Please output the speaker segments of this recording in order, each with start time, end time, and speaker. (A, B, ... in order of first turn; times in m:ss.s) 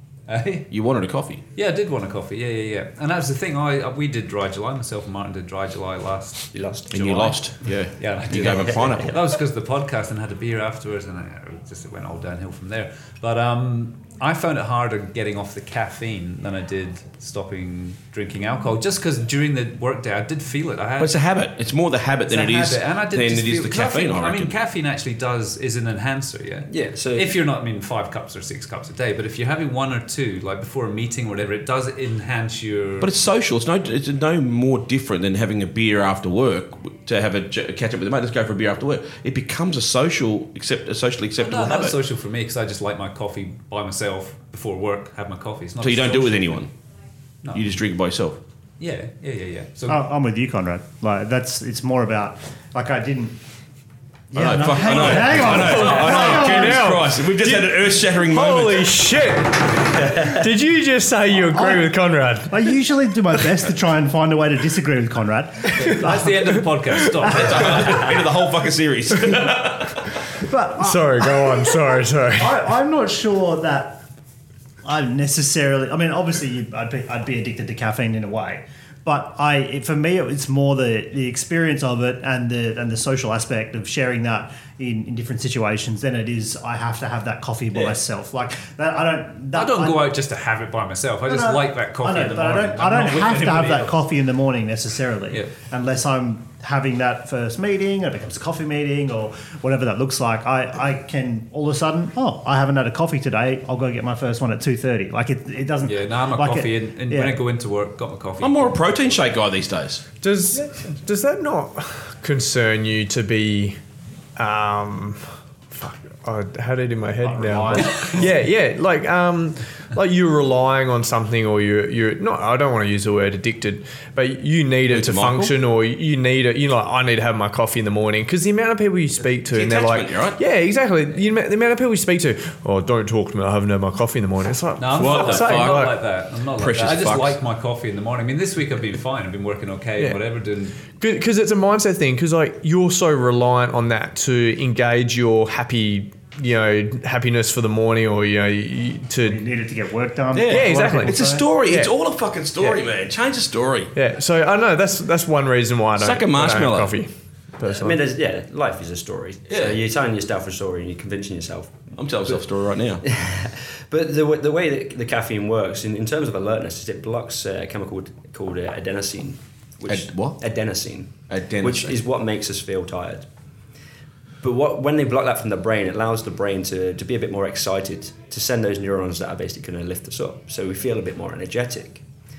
0:00.3-0:00.7 A
0:00.7-0:01.4 B
0:01.5-0:07.3 A
0:06.5-0:07.3 C
0:06.9-0:09.2 B
0:07.9-0:21.2 A
0:08.4-0:09.0 C
0:21.0-0:24.5 B
0:22.3-0:33.1 A
0:26.7-0:27.3 C
0:33.0-0:42.0 B
0:41.4-0:46.6 A
0:45.8-0:46.7 B
0:47.4-0:47.7 A
0:47.5-0:48.4 B
0:48.8-0:50.0 A
0:49.9-0:53.4 D
0:54.3-0:56.9 D
0:54.3-0:59.0 B
0:55.6-1:02.7 E
1:01.5-1:01.9 D
1:02.5-1:06.3 D
1:05.8-1:08.1 A
1:07.3-1:10.1 B
1:07.4-1:07.7 D
1:10.4-1:11.8 D
1:10.8-1:12.6 E
1:12.4-1:14.0 D
1:14.8-1:30.1 D
1:29.5-1:34.0 A
1:31.3-1:47.4 D
1:45.8-1:48.8 A
1:48.4-1:50.1 B
1:50.2-1:53.8 E
1:54.4-2:15.9 E
1:57.2-1:58.2 D
2:04.8-2:05.5 B
2:09.4-2:10.4 B
2:14.8-2:20.8 A
2:14.9-2:15.9 B
2:16.5-2:17.4 B
2:20.9-2:29.4 E
2:29.2-2:31.5 D
2:30.3-2:33.9 B
2:30.5-2:32.0 E
2:33.9-2:38.0 E
2:36.0-2:37.0 B
2:37.6-2:41.9 C
2:39.5-2:39.8 B
2:42.0-2:43.0 B
2:43.0-2:53.3 C
2:49.9-2:50.4 B
2:51.3-2:52.0 B
2:54.4-3:02.0 C